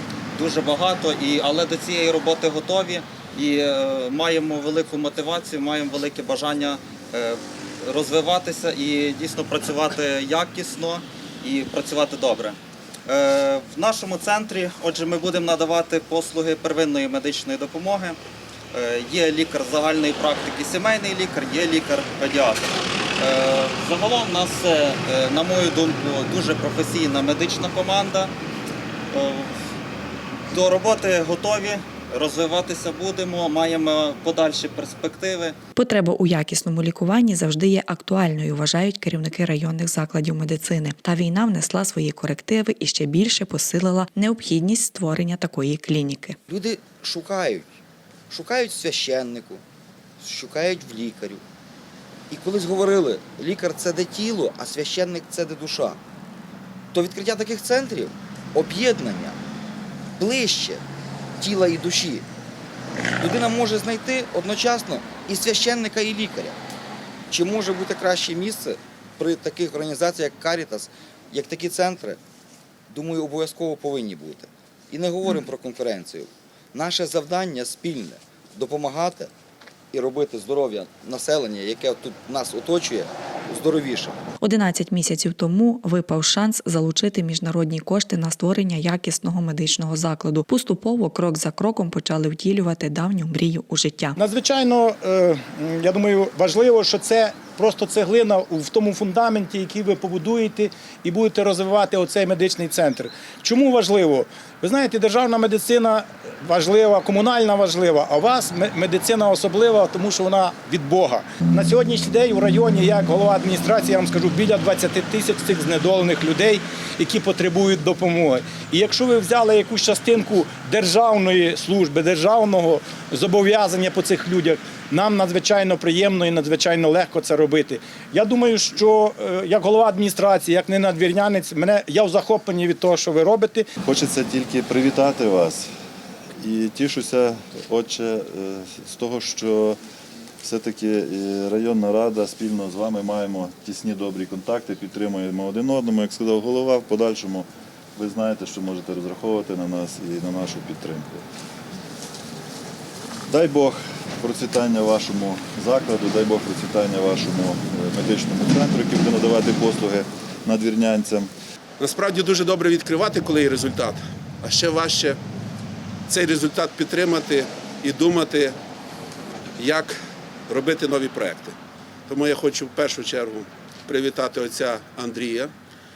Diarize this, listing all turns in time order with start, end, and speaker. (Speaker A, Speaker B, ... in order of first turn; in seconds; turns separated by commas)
Speaker A: 0.3-18.2, Speaker A: 18.7-22.6, Speaker A: 23.2-28.3, Speaker A: 29.1-29.5, Speaker A: 30.5-35.5, Speaker B: 35.8-46.4, Speaker C: 46.5-47.7, Speaker C: 48.3-49.6, Speaker C: 50.2-51.4, Speaker C: 52.3-56.0, Speaker C: 56.9-59.4, Speaker C: 60.2-60.8, Speaker C: 61.4-62.2, Speaker C: 63.2-66.5, Speaker C: 67.3-72.2, Speaker C: 72.9-79.3, Speaker C: 79.9-84.2, Speaker B: 84.4-94.2, Speaker D: 94.2-133.7, Speaker E: 133.8-135.7, Speaker E: 136.3-139.8, Speaker E: 140.4-151.2, Speaker E: 153.3-161.3, Speaker F: 161.8-165.2, Speaker F: 166.1-168.6, Speaker F: 169.6-169.9, Speaker F: 170.5-171.6, Speaker F: 172.1-175.5